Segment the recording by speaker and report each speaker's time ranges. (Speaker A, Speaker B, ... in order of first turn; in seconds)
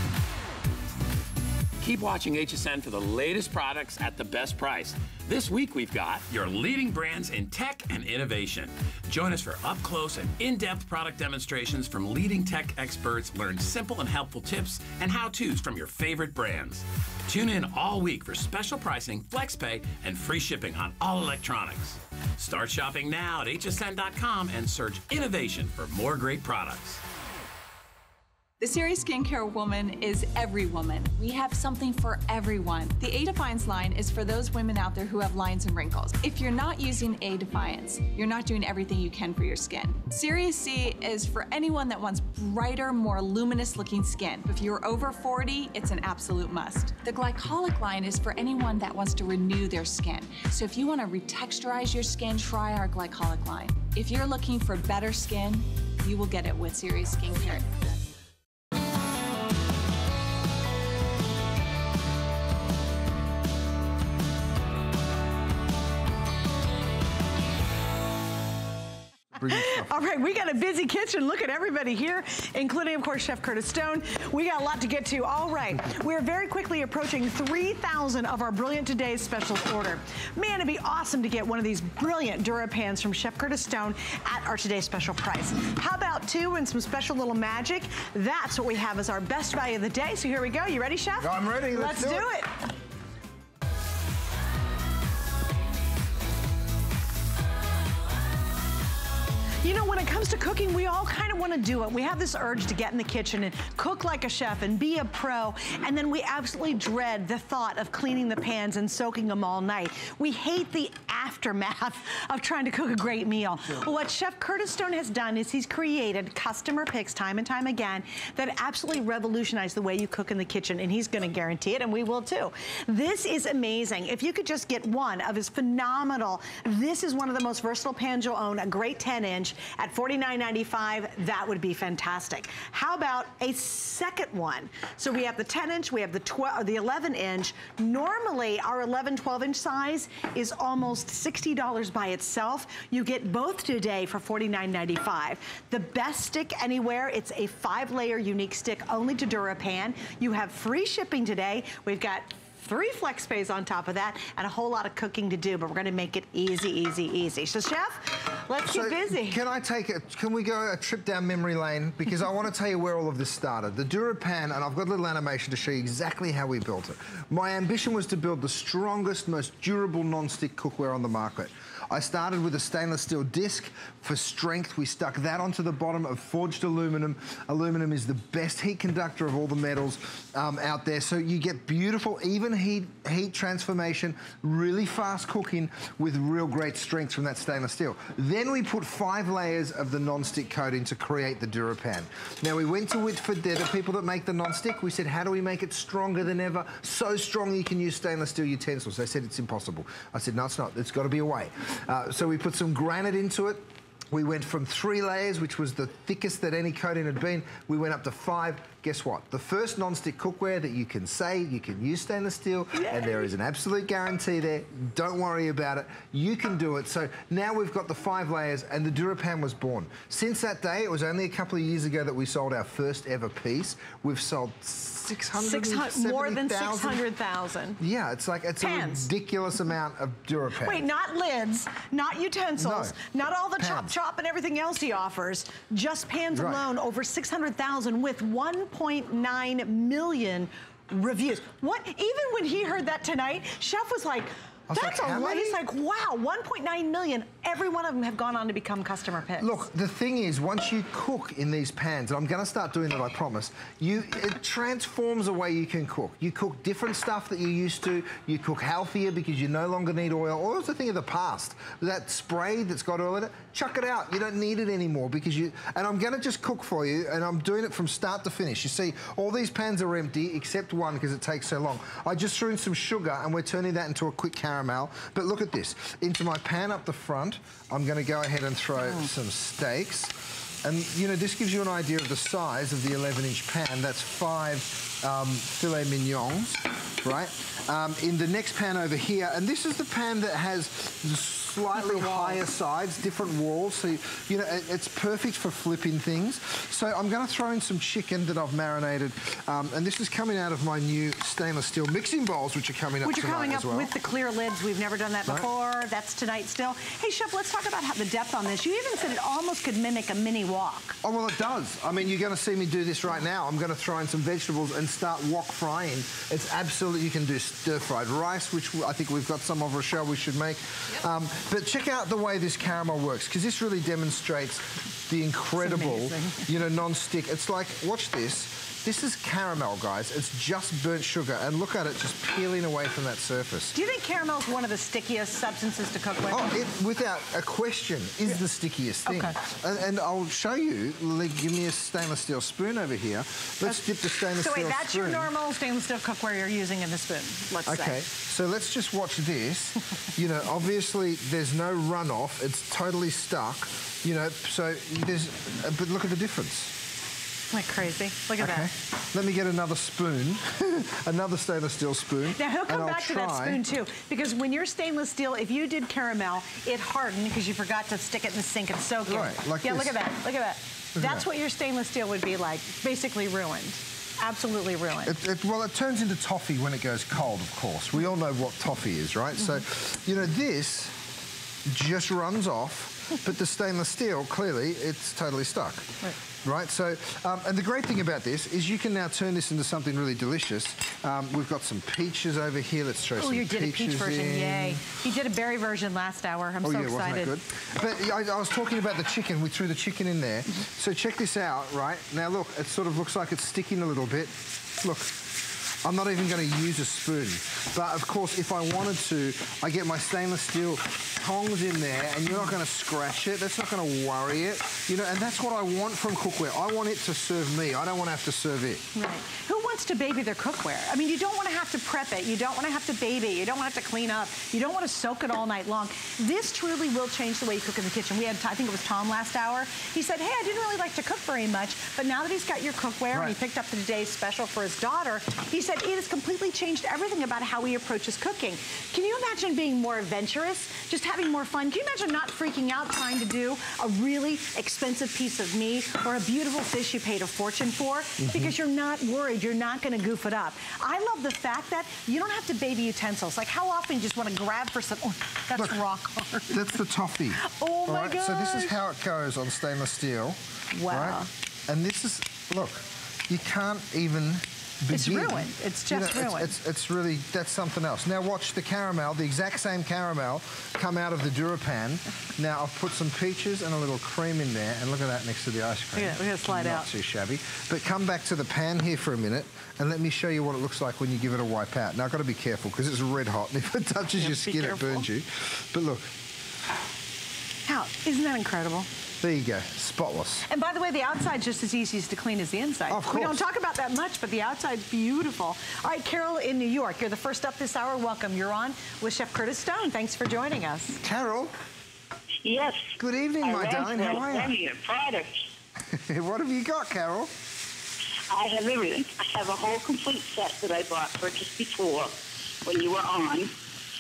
Speaker A: 1.8-27.0
Speaker B: 28.6-57.9
Speaker C: 69.4-69.9, 91.2-92.3, 158.6-227.1, 227.8-230.8, 232.6-233.0, 233.6-233.9, 236.3-236.6, 244.7-245.6, 249.4-303.9, 311.0-333.8, 336.3-345.3, 347.6-356.8, 358.4-363.6, 369.1-369.9, 370.9-371.2, 375.0-381.0, 381.6-394.8, 396.6-405.2, 405.8-418.8, 448.2-448.5, 456.5-486.1, 489.2-490.5, 492.9-493.4, 501.0-501.5, 503.0-504.5, 505.8-507.3
Speaker D: 69.5-92.6, 99.6-159.4, 212.7-213.2, 225.4-227.8, 228.6-229.1, 230.6-249.5, 291.7-292.4, 303.0-311.0, 325.6-326.5, 333.7-336.5, 339.1-339.4, 344.3-348.0, 357.5-358.7, 362.4-375.1, 393.2-397.3, 418.9-456.6, 457.4-458.8, 460.7-461.3, 464.9-466.5, 475.9-476.9, 484.2-485.1, 487.6-488.9, 490.5-501.0
Speaker E: 502.4-505.5, 508.3-513.5